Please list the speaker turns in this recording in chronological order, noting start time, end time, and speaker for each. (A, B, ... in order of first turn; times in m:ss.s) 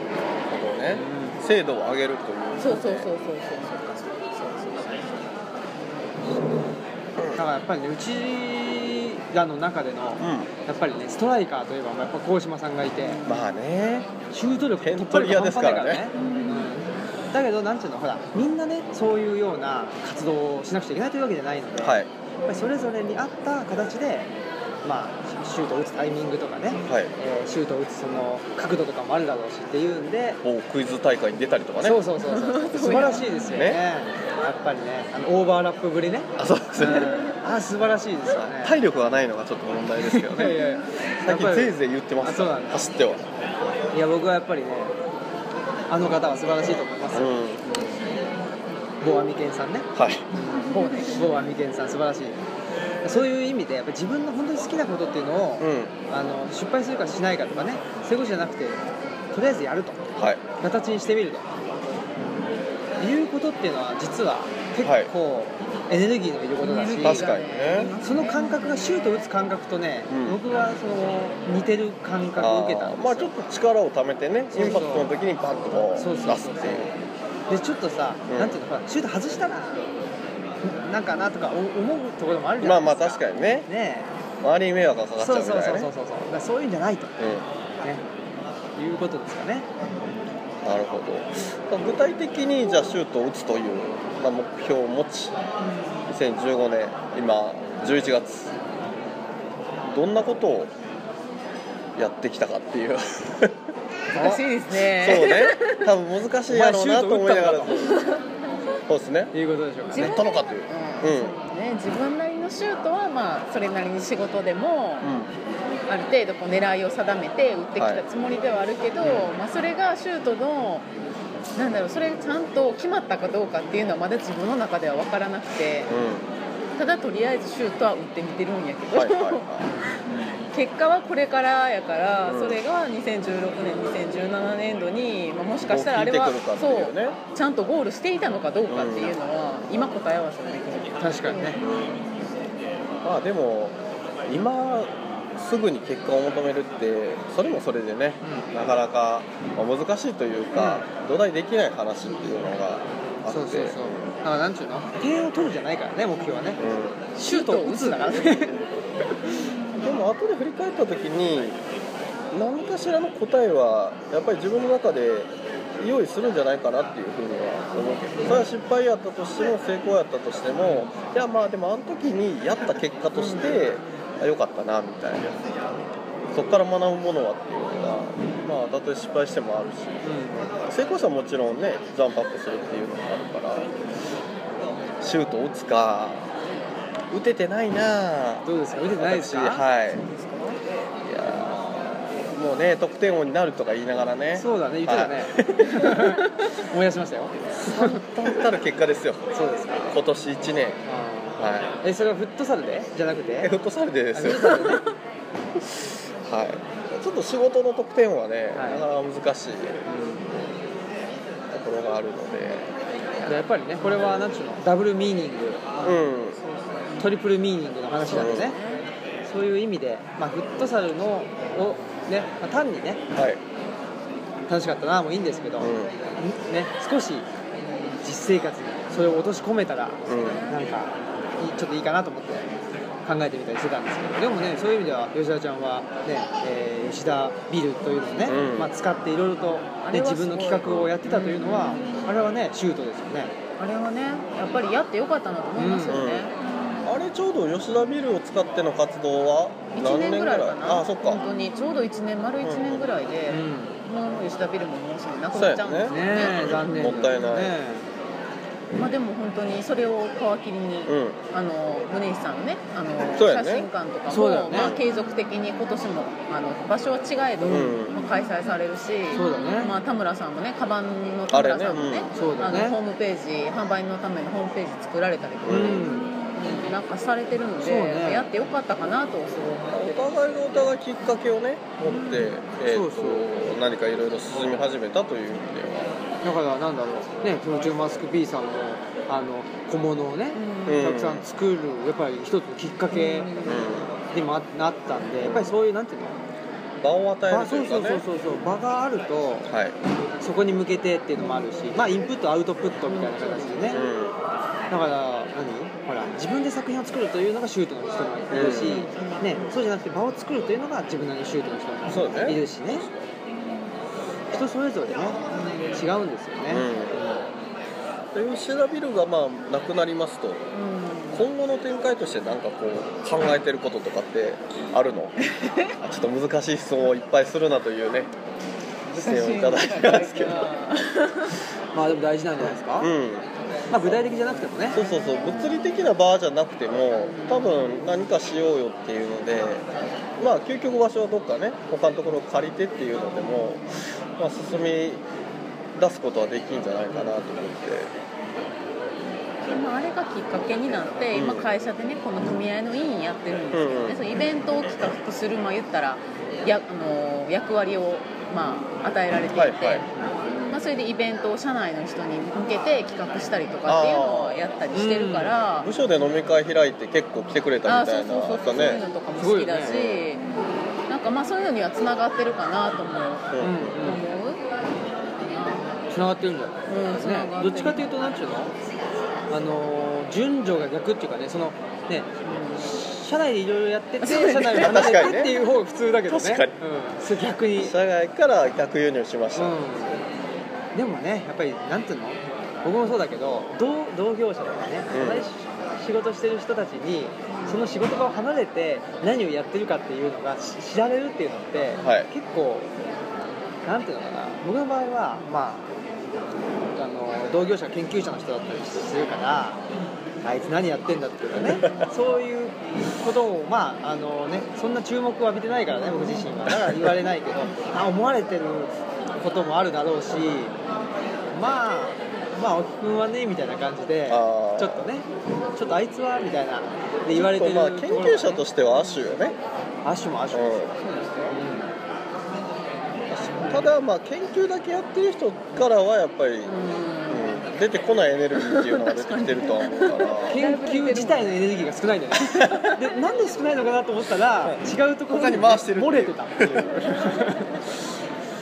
0:00.5-0:03.1 A
0:00.9-0:01.4 B
0:02.6-0:05.3 C
0:07.3-0:13.2 B
0:10.2-0:10.5 A
0:13.0-0:13.5 C
0:13.2-0:14.1 A
0:14.3-0:24.3 B
0:14.8-0:16.1 A
0:16.2-0:16.5 C
0:21.8-0:22.1 A
0:24.8-0:30.4 B
0:26.9-0:27.1 A
0:30.4-0:32.0 A
0:31.8-0:38.7 B
0:32.3-0:33.4 C
0:33.5-0:33.8 A
0:36.4-0:37.3 A
0:38.4-0:40.6 A
0:40.0-0:42.9 B
0:41.2-0:43.2 A
0:43.9-0:44.9 B
0:45.9-0:47.4 B
0:47.1-0:47.6 A
0:49.0-0:52.4 B
0:49.9-0:50.2 A
0:50.7-0:51.2 C
0:53.0-0:58.8 B
0:55.6-0:55.9 A
0:59.3-1:00.0 B
1:00.2-1:00.4 A
1:00.6-1:01.5 B
1:03.0-1:07.3 B
1:04.8-1:05.1 A
1:06.6-1:08.6 C
1:07.0-1:07.9 A
1:08.0-1:13.3 B
1:10.1-1:10.4 A
1:12.4-1:16.9 A
1:14.5-1:15.1 B
1:16.0-1:16.9 B
1:17.5-1:19.8 B
1:18.3-1:18.6 A
1:20.6-1:24.1 B
1:22.6-1:23.7 A
1:24.4-1:25.9 A
1:25.2-1:27.3 B
1:27.2-1:27.4 A
1:28.8-1:29.7 B
1:30.6-1:35.4 A
1:35.6-1:36.0 C
1:36.1-1:38.5 A
1:39.8-1:40.7 A
1:42.0-1:43.6 A
1:44.1-1:44.4 B
1:44.1-1:45.9 C
1:44.7-1:47.9 A
1:46.5-1:47.8 B
1:47.8-1:48.2 C
1:48.9-1:49.3 A
1:49.3-1:50.2 B
1:49.9-1:55.1 C
1:50.0-1:51.3 A
1:55.0-1:55.3 A
1:55.9-2:00.9 C
1:57.8-1:58.0 A
1:59.0-1:59.3 B
2:01.5-2:05.9 C
2:05.9-2:06.2 A
2:06.8-2:09.5 C
2:08.9-2:09.7 A
2:10.5-2:21.8 C
2:12.2-2:12.6 A
2:15.6-2:17.2 A
2:18.7-2:19.1 A
2:21.0-2:21.6 B
2:21.6-2:22.0 A
2:23.0-2:34.1 A
2:28.2-2:28.5 B
2:30.6-2:30.9 B
2:33.3-2:36.6 B
2:36.6-2:37.0 A
2:37.2-2:39.2 B
2:37.2-2:38.4 C
2:39.8-2:41.6 A
2:42.3-2:55.3 A
2:53.2-2:53.8 C
2:56.3-3:00.1 A
3:00.0-3:00.5 B
3:00.6-3:03.7 A
3:05.0-3:06.3 A
3:07.1-3:08.4 A
3:08.4-3:09.6 B
3:09.0-3:10.0 A
3:09.9-3:10.6 C
3:11.0-3:16.1 A
3:14.4-3:18.0 B
3:17.7-3:19.3 A
3:17.8-3:18.0 C
3:19.3-3:20.0 B
3:19.9-3:20.8 A
3:20.8-3:23.5 B
3:21.4-3:21.8 A
3:23.4-3:24.8 A
3:24.1-3:24.8 B
3:25.6-3:29.8 A
3:28.5-3:28.8 B
3:29.8-3:30.3 B
3:31.5-3:32.7 A
3:33.2-3:35.9 B
3:35.8-3:36.4 A
3:36.4-3:37.0 C
3:37.0-3:38.6 B
3:38.1-3:38.8 C
3:38.1-3:38.5 A
3:39.3-3:43.0 B
3:43.1-3:43.4 A
3:44.5-3:47.3 B
3:45.6-3:45.9 A
3:48.0-3:52.5 B
3:50.1-3:50.4 A
3:50.2-3:50.7 C
3:53.0-4:03.3 B
3:58.2-3:58.7 A
3:59.8-4:01.9 C
4:00.6-4:00.9 A
4:03.6-4:06.4 C
4:05.6-4:06.0 B
4:05.9-4:06.3 A
4:06.8-4:11.2 A
4:09.7-4:17.2 C
4:12.4-4:12.9 A
4:13.3-4:13.8 B
4:15.3-4:17.6 A
4:15.8-4:17.8 B
4:18.7-4:40.0 C
4:20.9-4:21.2 A
4:23.1-4:23.7 A
4:24.1-4:24.7 B
4:24.5-4:24.8 A
4:27.4-4:27.8 B
4:27.4-4:28.0 A
4:29.1-4:29.7 B
4:31.3-4:32.1 A
4:32.1-4:32.8 B
4:35.4-4:35.9 A
4:35.5-4:36.6 B
4:37.6-4:38.3 B
4:39.7-4:46.0 A
4:41.9-4:43.3 B
4:46.2-4:53.3 B
4:50.3-4:50.9 C
4:50.6-4:51.2 A
4:52.9-4:53.7 C
4:53.4-4:53.9 A
4:54.1-4:56.2 B
4:55.2-4:55.5 A
4:56.8-4:58.0 A
4:57.3-4:59.5 B
4:59.5-4:59.8 A
5:00.2-5:03.8 B
5:03.0-5:03.8 C
5:03.7-5:04.1 A
5:04.7-5:12.9 B
5:08.3-5:08.9 A
5:08.6-5:09.4 C
5:11.9-5:13.0 A
5:14.3-5:15.2 B
5:15.3-5:15.8 C
5:15.7-5:17.1 B
5:16.5-5:17.3 A
5:18.1-5:20.5 A
5:20.5-5:21.2 C
5:21.1-5:25.2 A
5:25.3-5:25.7 C
5:25.8-5:28.1 A
5:28.9-5:31.4 C
5:28.9-5:30.5 A
5:31.7-5:32.9 B
5:32.4-5:34.0 A
5:33.7-5:34.8 B
5:34.7-5:39.6 A
5:34.7-5:35.5 C
5:37.0-5:37.8 C
5:40.2-5:43.6 A
5:44.2-5:45.0 A
5:45.8-5:47.9 A
5:49.5-5:59.9 C
5:51.1-5:51.5 A
5:53.5-5:54.0 A
5:59.3-5:59.8 A
6:00.5-6:05.7 C
6:03.6-6:04.5 A
6:04.7-6:05.4 B
6:05.6-6:08.8 A
6:07.6-6:10.2 C
6:09.2-6:09.8 B
6:09.6-6:10.0 A
6:10.9-6:14.4 C
6:13.3-6:13.8 A
6:13.4-6:14.0 B
6:15.3-6:15.8 C
6:15.9-6:18.5 B
6:16.7-6:18.0 C
6:19.3-6:27.7 B
6:22.4-6:22.6 C
6:24.0-6:25.2 C
6:24.5-6:25.4 A
6:26.1-6:26.6 A
6:27.5-6:29.6 A
6:29.3-6:30.0 B
6:30.7-6:42.7 B
6:34.9-6:35.2 A
6:41.8-6:42.1 A
6:43.6-6:45.6 B
6:46.7-6:49.6 B
6:50.2-7:00.5 B
7:01.3-7:08.4 B
7:04.1-7:04.9 A
7:07.1-7:09.4 A
7:09.8-7:10.8 B
7:10.3-7:10.7 A
7:10.8-7:11.3 C
7:11.3-7:11.7 B
7:13.1-7:16.5 A
7:16.4-7:17.4 C
7:17.1-7:20.4 A
7:18.4-7:21.4 C
7:20.3-7:27.6 B
7:22.2-7:22.7 A
7:24.4-7:26.9 A